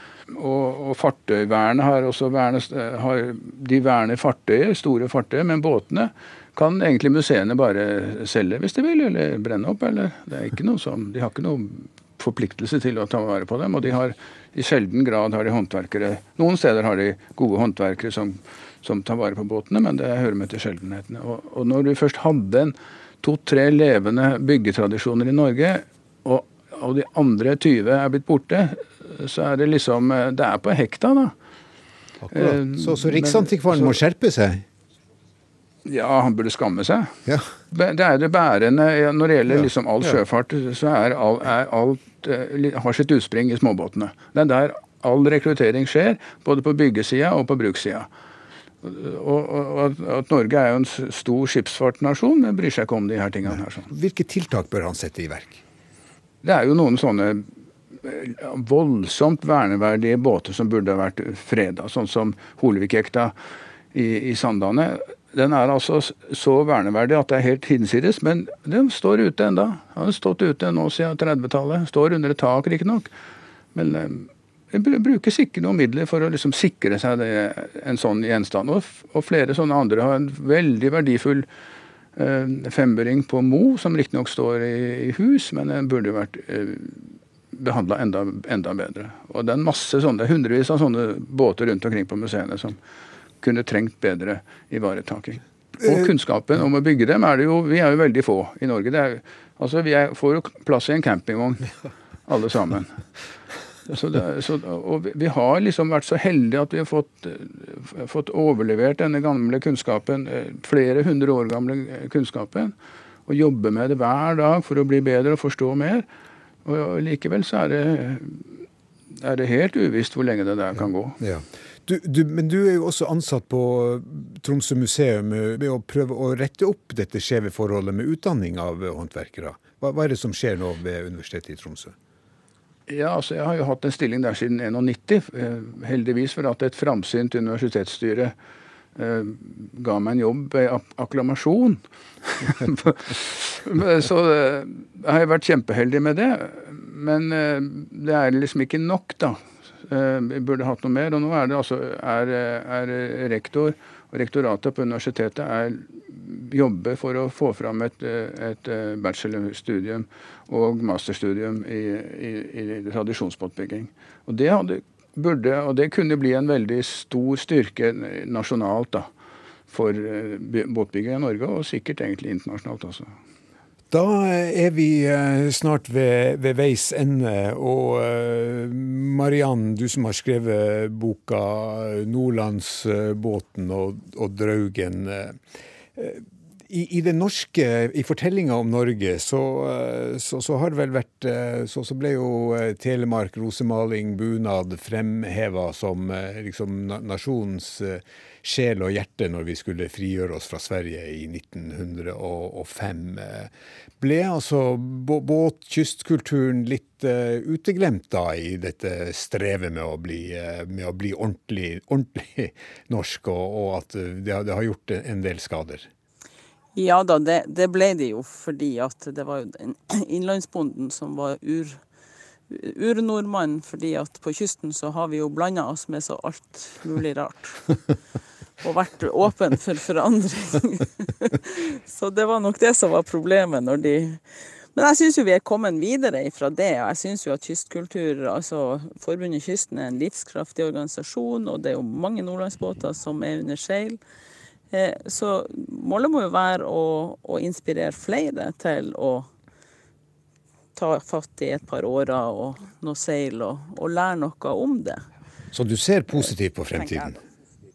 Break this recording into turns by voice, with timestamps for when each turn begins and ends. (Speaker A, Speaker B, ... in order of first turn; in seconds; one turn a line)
Speaker A: 0.3-31.3
Speaker B: 32.2-34.6
Speaker A: 32.3-34.0
Speaker A: 35.9-37.2
Speaker A: 37.7-48.1
Speaker A: 48.8-53.9
Speaker B: 53.9-55.6
Speaker A: 56.4-57.5
Speaker A: 58.0-63.3
Speaker A: 63.9-73.1
Speaker A: 73.7-81.5
Speaker A: 82.2-92.8
Speaker A: 93.4-101.7
Speaker A: 102.3-103.0
Speaker A: 103.9-112.7
Speaker A: 113.3-116.0
Speaker A: 116.6-121.2
Speaker B: 121.2-131.9
Speaker A: 132.9-138.3
Speaker A: 138.9-169.1
Speaker A: 169.7-173.1
Speaker B: 173.9-185.4
Speaker B: 185.9-215.9
Speaker C: 216.8-221.8
Speaker C: 222.5-227.8
Speaker C: 228.6-234.2
Speaker C: 234.8-244.0
Speaker C: 244.7-249.3
Speaker C: 250.8-255.0
Speaker B: 255.5-257.2